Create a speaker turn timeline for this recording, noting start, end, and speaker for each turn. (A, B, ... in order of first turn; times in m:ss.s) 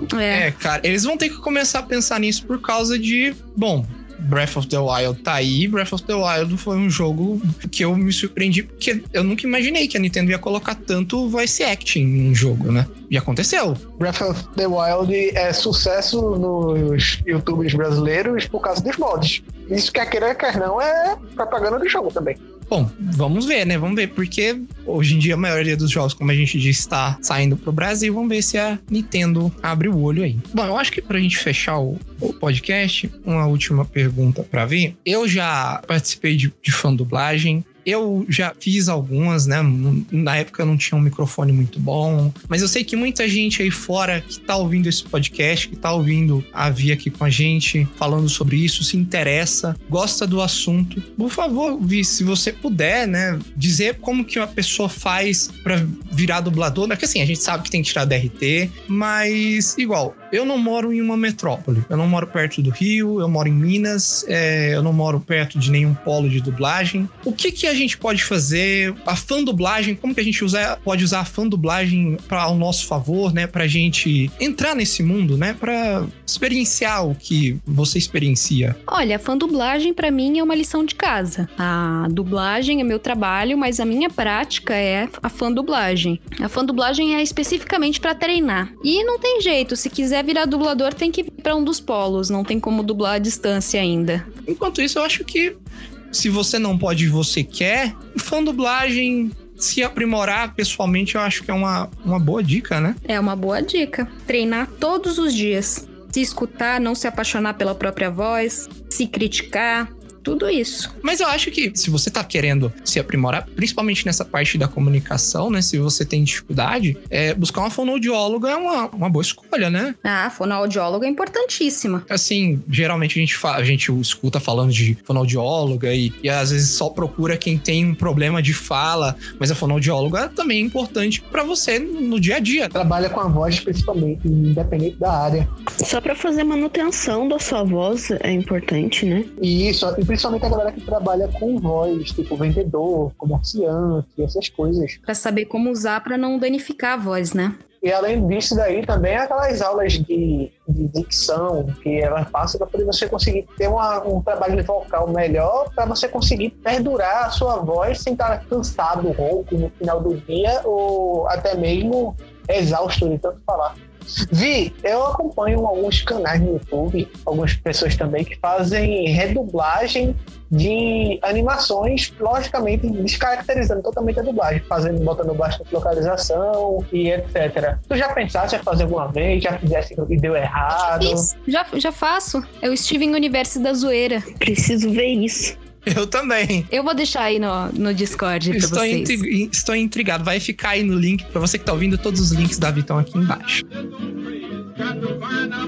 0:00.1-0:00.5 A
0:00.3-0:13.8 B
0:14.0-0:22.4 C
0:22.7-1:18.8 B
1:18.9-1:34.3 A
1:34.5-1:35.6 B
1:36.1-1:43.0 B
1:43.0-1:50.9 A
1:51.0-2:00.0 B
2:00.0-2:02.0 A
2:02.1-2:12.7 B
2:12.7-2:15.5 C
2:15.8-2:19.3 D
2:19.4-2:25.0 C
2:25.1-2:27.6 A
2:27.8-3:01.3 C
3:00.8-3:04.3 A
3:04.4-3:05.6 D
3:05.9-3:06.7 B
3:06.7-3:09.2 A
3:08.5-3:13.6 B